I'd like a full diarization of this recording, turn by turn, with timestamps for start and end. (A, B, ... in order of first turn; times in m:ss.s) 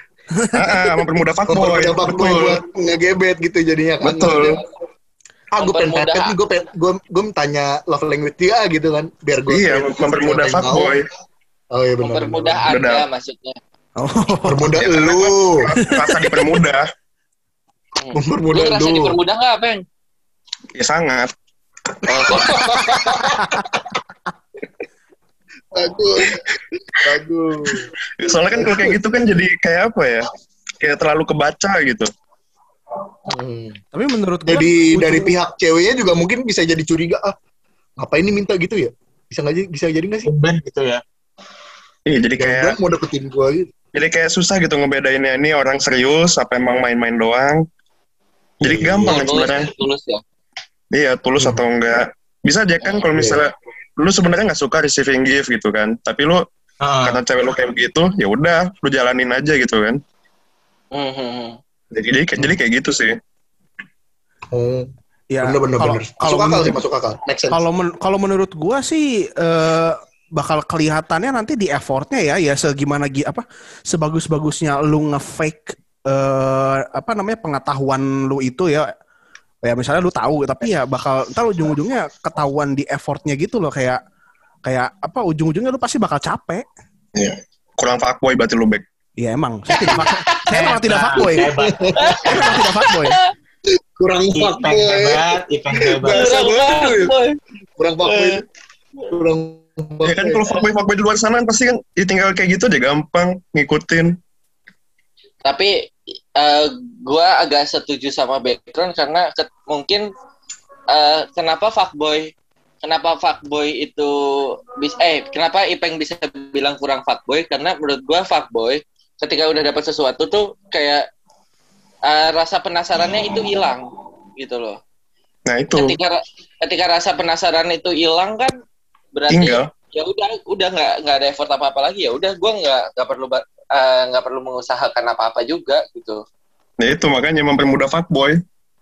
0:00.4-0:00.9 A
0:00.5-0:02.6 B
0:01.5-0:04.6 C
0:04.0-0:04.6 B
0:05.5-0:11.0 C
0:05.6-0:06.4 D
0:09.5-0:11.0 B
0:11.7-0:12.6 C
0:12.0-0:13.6 D
0:12.6-0:13.1 B
0:14.0-0:14.8 A
0:14.4-0:15.7 C
0:14.8-0:16.8 B
0:15.8-0:16.5 A
0:18.0-0:19.8 D
0:18.1-0:19.2 C
0:20.8-0:21.3 B
0:22.1-0:22.8 D
0:22.2-0:23.8 C
0:25.7-0:27.9 C
0:28.2-0:30.2 B
0:28.5-0:29.0 C
0:30.8-0:32.1 B
0:33.3-0:33.8 C
0:33.9-0:35.3 A
0:34.5-0:37.3 C
0:38.0-0:40.3 C
0:40.2-0:41.0 E
0:42.1-0:42.8 B
0:42.4-0:43.7 C
0:43.9-0:47.6 B
0:48.6-0:49.7 B
0:48.6-0:49.2 C
0:49.1-0:50.2 D
0:50.9-0:56.4 B
0:51.4-0:51.6 C
0:53.1-0:53.4 C
0:56.8-0:57.2 E
0:57.0-1:00.0 B
1:00.9-1:01.6 D
1:01.9-1:03.1 B
1:04.5-1:04.9 C
1:05.3-1:06.8 A
1:05.4-1:07.6 C
1:07.5-1:18.9 A
1:19.6-1:24.0 A
1:24.6-1:26.6 A
1:27.2-1:28.8 B
1:29.2-1:31.5 A
1:29.8-1:30.4 D
1:30.5-1:31.8 E
1:31.2-1:32.6 C
1:32.0-1:33.3 D
1:32.2-1:33.2 A
1:34.0-1:37.1 C
1:34.3-1:36.3 E
1:36.1-1:37.4 D
1:37.8-1:38.4 C
1:38.0-1:38.3 D
1:39.1-1:40.6 C
1:40.0-1:44.2 B
1:45.4-1:50.1 D
1:50.9-1:52.3 D
1:52.8-2:01.0 D
2:02.0-2:04.8 D
2:05.5-2:06.0 B
2:05.7-2:08.6 D
2:09.1-2:16.2 D
2:09.3-2:09.7 B
2:16.8-2:18.4 B